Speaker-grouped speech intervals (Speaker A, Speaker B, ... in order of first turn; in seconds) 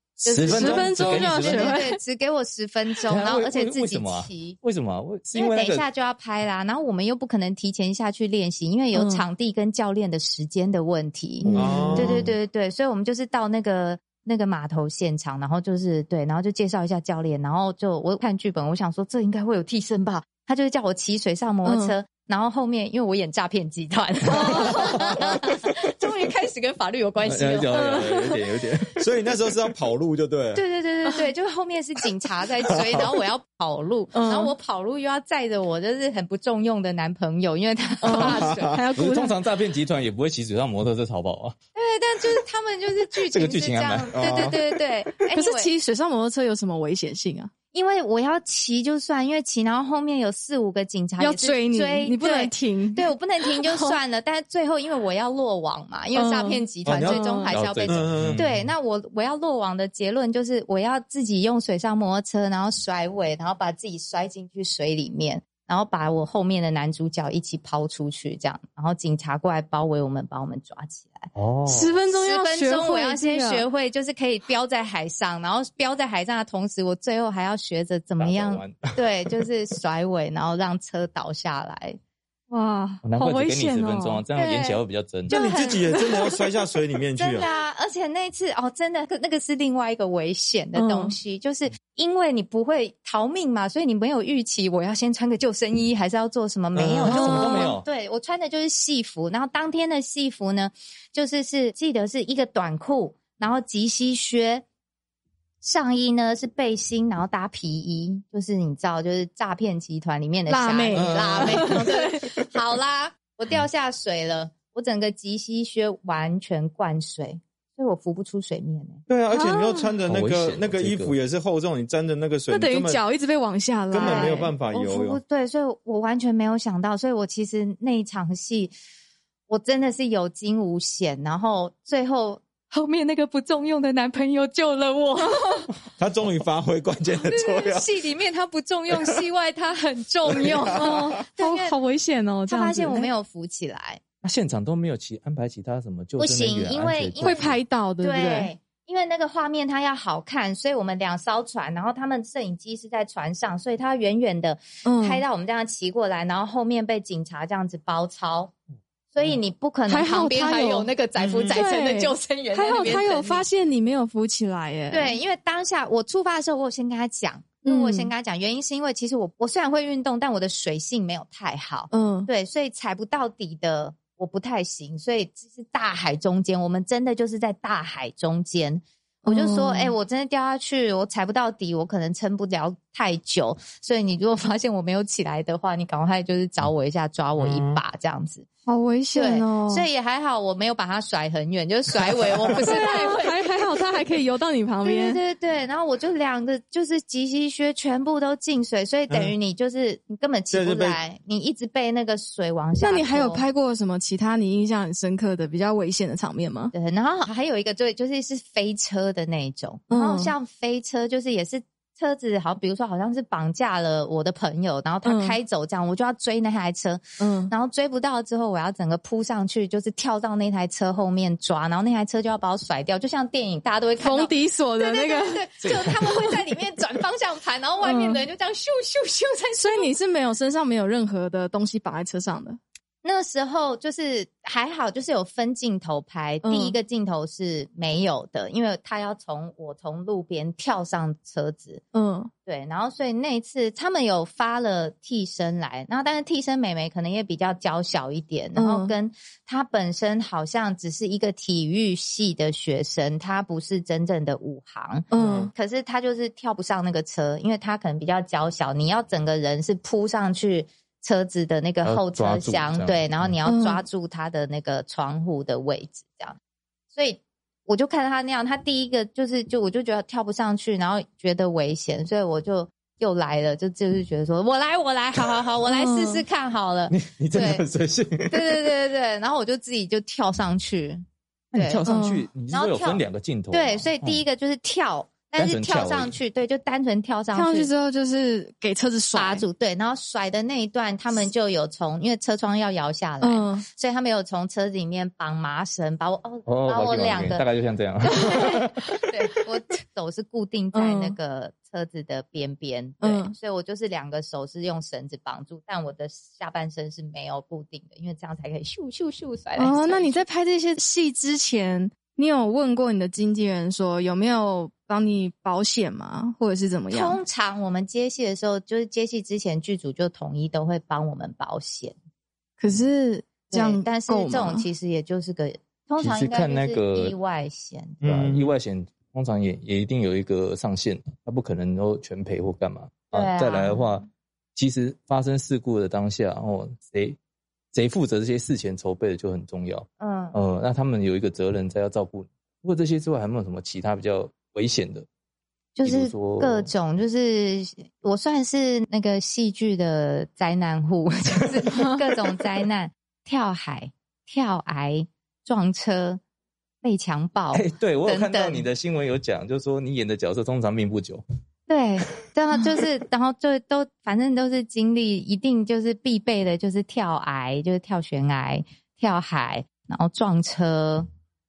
Speaker A: 0.2-4.6, 5.3-28.0, 30.5-38.8, 41.7-45.7, 47.7-71.3, 72.1-82.0, 84.3-86.0, 87.2-104.6, 105.6-119.0, 124.0-128.7, 129.5-135.7, 137.2-141.8, 142.4-144.0, 146.2-158.5, 159.1-163.4, 164.9-188.4, 189.1-193.3, 194.8-203.4, 206.7-229.9, 233.0-241.8, 242.4-266.4, 266.9-277.6, 278.3-281.0, 281.5-281.8, 282.5-287.7, 289.1-297.5, 298.0-310.2, 316.9-321.9, 323.5-328.0, 333.1-334.0, 340.0-340.4, 345.8-356.2, 356.8-358.7, 361.7-371.1
Speaker B: 0.2-1.8, 3.1-5.8, 11.5-12.2, 24.7-25.0, 27.2-29.0, 39.0-41.5, 43.3-44.6, 56.9-58.7, 71.3-71.9, 78.2-79.0, 83.0-85.4, 97.0-97.8, 120.1-121.2, 144.2-147.5, 225.6-225.9, 261.8-263.3, 276.9-278.5, 281.5-284.2, 285.4-286.1, 296.4-299.0, 326.0-327.1, 328.0-337.2, 337.7-345.1, 345.8-346.7, 357.5-361.2
Speaker C: 0.3-2.0, 8.9-9.2, 11.4-12.2, 21.6-21.9, 24.3-25.1, 27.7-28.5, 34.1-34.5, 38.0-39.3, 45.3-47.5, 51.2-54.0, 56.1-57.5, 71.7-73.7, 82.5-84.2, 85.5-86.3, 90.7-91.1, 97.1-97.8, 110.5-112.4, 119.3-120.0, 122.5-124.5, 140.6-143.1, 147.2-148.5, 154.8-155.2, 159.9-160.9, 161.5-165.2, 167.6-168.1, 171.9-172.3, 179.2-179.9, 188.7-189.9, 192.6-195.2, 202.8-206.7, 209.9-210.3, 215.0-215.4, 217.2-217.5, 224.0-226.3, 227.8-228.2, 229.6-232.6, 236.4-236.8, 241.9-242.3, 248.6-248.9, 255.1-255.5, 263.4-263.8, 275.7-276.2, 281.9-282.3, 287.3-289.4, 293.2-293.6, 300.7-301.1, 303.0-303.3, 309.6-317.2, 322.6-324.7
Speaker D: 11.5-12.3, 29.0-30.6, 44.2-44.5, 56.9-57.2, 57.9-58.4, 85.3-87.5, 96.7-97.2, 110.9-111.8, 119.1-123.0, 123.9-125.2, 136.0-137.9, 138.9-139.2, 161.2-161.6, 187.4-187.8, 200.5-201.0, 255.1-255.5, 328.0-328.5